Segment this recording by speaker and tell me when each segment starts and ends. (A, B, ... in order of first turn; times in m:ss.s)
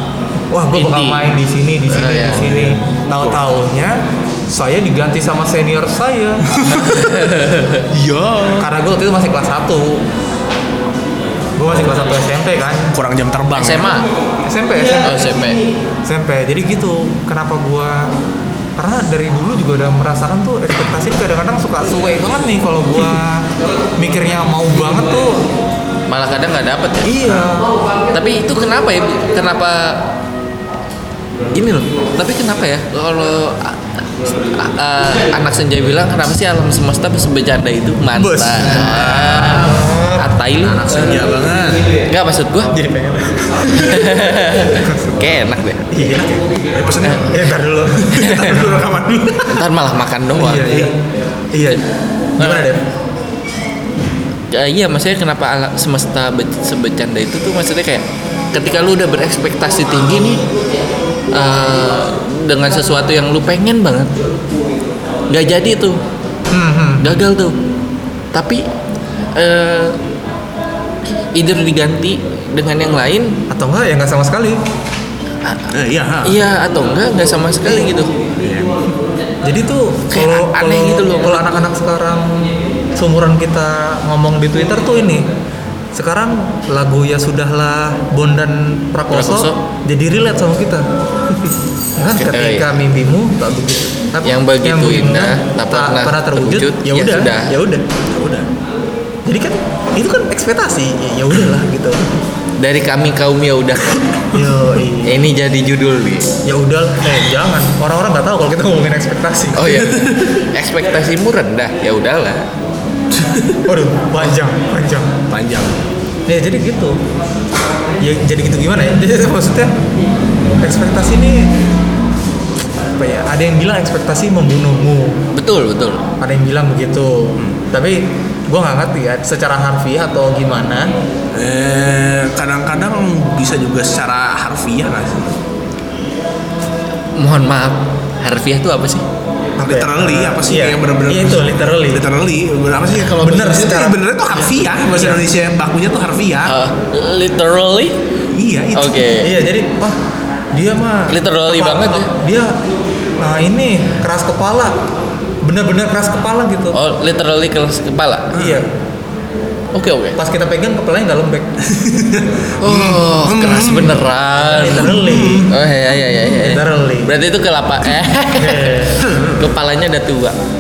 0:00.5-0:06.5 A
0:00.7-0:01.2 B
0:01.9-0:02.4 B
0:02.4-0:03.4 C
0:06.5-0:07.2 C
0:06.7-0:07.9 B
0:07.9-0:08.7 C
0:08.6-0:10.0 A
0:11.6-0:13.0 A
0:12.9-0:14.0 C
0:13.6-0:14.1 B
0:14.4-0:15.3 A
0:15.0-0:15.6 B
0:16.0-0:18.1 A
0:18.8-0:25.5 A
0:26.1-0:27.4 B
0:27.0-0:27.7 A
0:28.1-0:30.1 B
0:31.5-0:41.3 B
0:38.2-0:40.3 A
0:38.6-0:39.8 C
0:40.6-0:41.9 C
0:42.1-0:42.7 B
0:42.7-0:44.1 A
0:43.7-0:45.9 B
0:44.8-0:45.1 A
0:45.9-0:46.4 A
0:46.7-0:49.6 C
0:47.2-0:48.9 A
0:48.2-0:48.6 B
0:49.5-0:50.8 B
0:50.4-0:50.9 A
0:50.6-0:50.9 C
0:51.5-0:51.8 A
0:52.4-0:52.8 A
0:52.4-0:52.7 B
0:54.5-1:00.4 B
1:01.3-1:04.2 B
1:05.3-1:06.0 B
1:06.5-1:07.2 A
1:07.0-1:07.6 B
1:08.3-1:08.6 B
1:09.4-1:10.0 B
1:11.3-1:13.4 B
1:13.5-1:14.6 A
1:15.4-1:15.7 B
1:15.7-1:16.4 C
1:16.2-1:18.1 B
1:18.4-1:18.8 C
1:19.4-1:25.3 A
1:20.1-1:21.6 B
1:25.9-1:30.9 A
1:29.1-1:29.6 B
1:32.0-1:37.9 A
1:32.1-1:32.7 B
1:34.2-1:37.6 B
1:38.1-1:38.5 C
1:39.2-1:42.1 A
1:42.6-1:44.0 B
1:44.3-1:45.2 A
1:45.0-1:46.3 B
1:46.4-1:49.8 A
1:49.5-1:52.5 B
1:49.7-1:50.4 C
1:53.1-1:53.7 C
1:53.7-1:55.1 A
1:55.3-1:55.8 C
1:56.3-1:57.0 A
1:58.0-1:59.8 A
2:00.6-2:01.5 A
2:03.0-2:05.2 A
2:05.3-2:06.0 B
2:06.2-2:10.9 A
2:11.3-2:15.4 C
2:17.2-2:19.0 B
2:19.6-2:22.1 A
2:19.6-2:26.5 C
2:23.2-2:25.2 A
2:26.4-2:28.0 B
2:28.3-2:29.1 C
2:28.7-2:29.3 B
2:29.2-2:30.0 A
2:30.5-2:32.6 A
2:31.1-2:32.1 B
2:33.2-2:34.8 A
2:35.4-2:36.8 A
2:36.7-2:38.4 B
2:38.3-2:38.7 C
2:38.3-2:38.7 A
2:39.7-2:40.2 B
2:40.2-2:41.5 A
2:41.6-2:44.1 C
2:42.6-2:50.4 B
2:44.4-2:45.5 A
2:44.7-2:45.5 C
2:46.3-2:47.1 A
2:48.4-2:49.1 A
2:49.0-2:49.5 C